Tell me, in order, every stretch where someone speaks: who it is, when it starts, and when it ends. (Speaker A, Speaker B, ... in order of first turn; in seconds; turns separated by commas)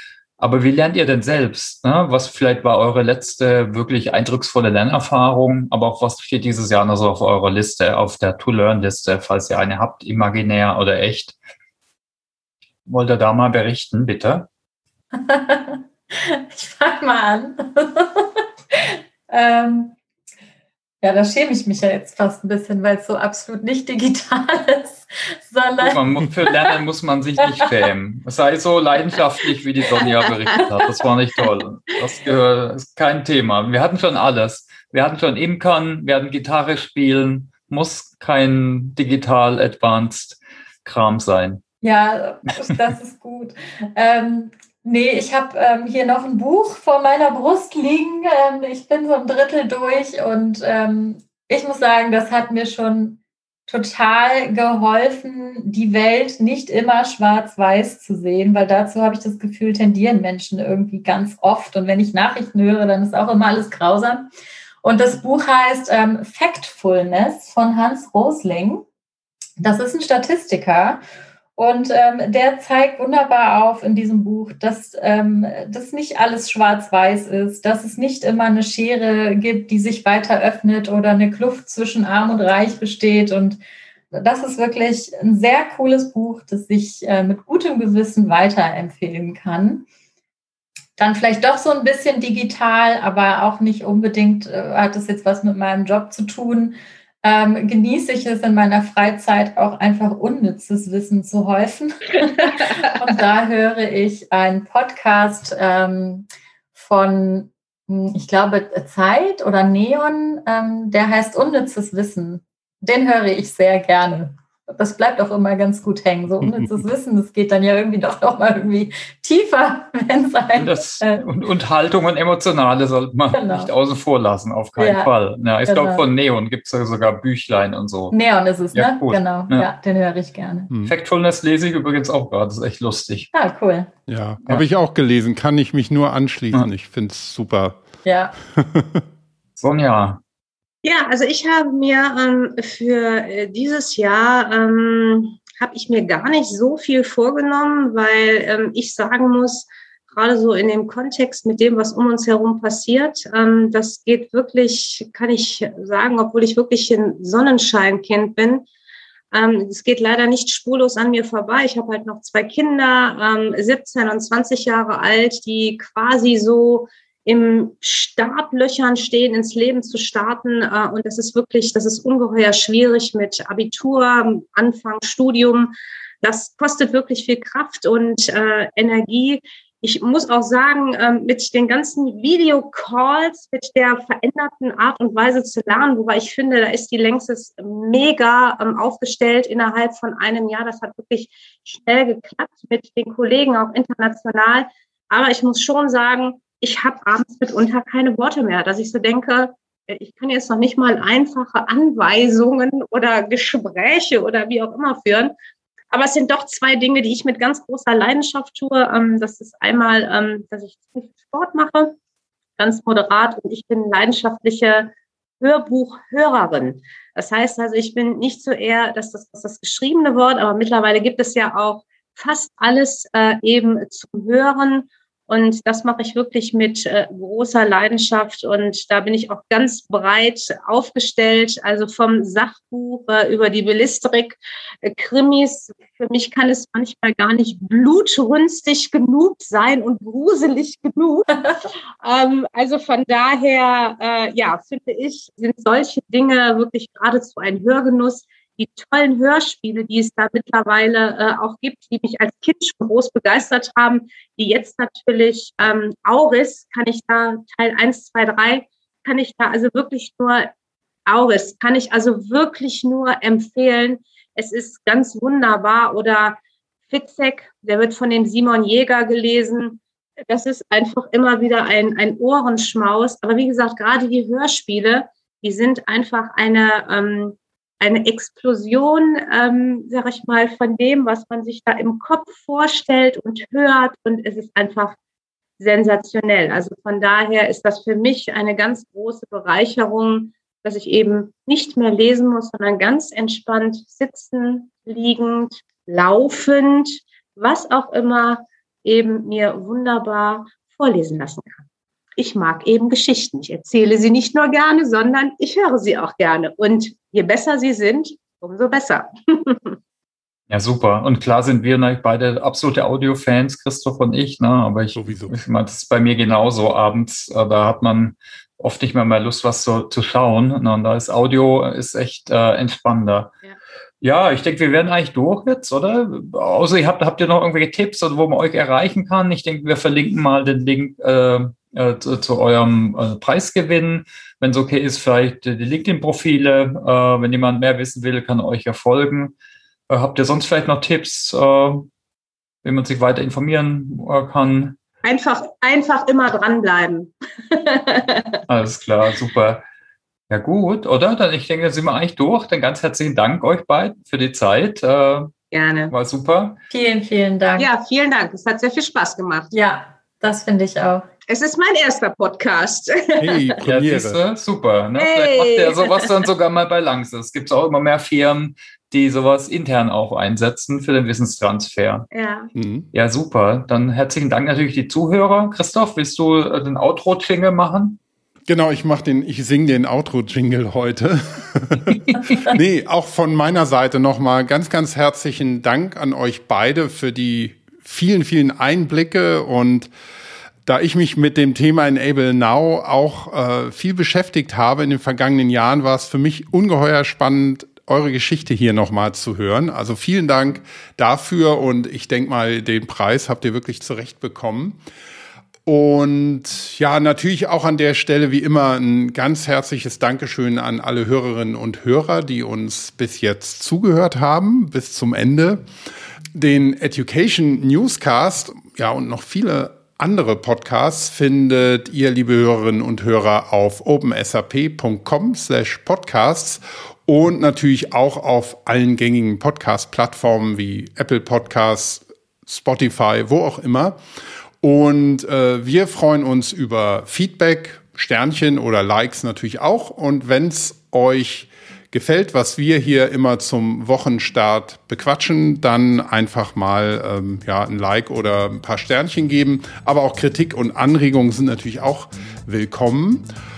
Speaker A: 0.4-11.4, Speaker A: 12.9-14.5, Speaker B: 15.1-19.9, Speaker B: 21.0-26.0, Speaker A: 25.8-41.6, Speaker C: 30.0-30.6, Speaker B: 41.8-64.3, Speaker B: 64.8-68.8, Speaker B: 69.6-71.0, Speaker B: 71.6-83.6, Speaker B: 84.1-89.9, Speaker B: 91.0-121.2, Speaker A: 120.6-128.2, Speaker B: 123.3-123.7, Speaker B: 124.8-125.1, Speaker B: 125.7-126.0, Speaker B: 128.1-130.7, Speaker A: 128.7-129.7, Speaker A: 130.8-133.3, Speaker B: 133.3-133.9, Speaker D: 134.1-137.8, Speaker B: 138.1-138.3, Speaker D: 138.6-139.0, Speaker A: 139.6-140.2, Speaker C: 140.8-158.7, Speaker C: 159.3-205.3, Speaker C: 205.9-212.0, Speaker C: 212.6-241.4, Speaker C: 242.0-260.5, Speaker C: 261.1-285.0, Speaker C: 285.6-301.6, Speaker C: 302.2-309.8, Speaker A: 310.5-323.4, Speaker D: 315.0-315.4, Speaker A: 324.0-339.3, Speaker A: 339.9-341.9, Speaker A: 342.6-344.8, Speaker C: 345.1-348.4, Speaker A: 348.5-349.6, Speaker A: 350.3-355.3, Speaker C: 355.5-355.9, Speaker A: 355.9-356.6, Speaker B: 356.7-357.7, Speaker C: 357.6-359.5, Speaker B: 359.5-361.1, Speaker C: 361.3-363.6, Speaker D: 363.2-364.2, Speaker A: 363.6-372.1, Speaker C: 365.0-366.2, Speaker C: 372.1-372.5, Speaker D: 372.6-372.9, Speaker A: 372.9-378.0, Speaker D: 378.5-389.9, Speaker D: 390.7-404.8, Speaker D: 405.7-415.6, Speaker D: 416.4-434.0, Speaker D: 434.6-453.2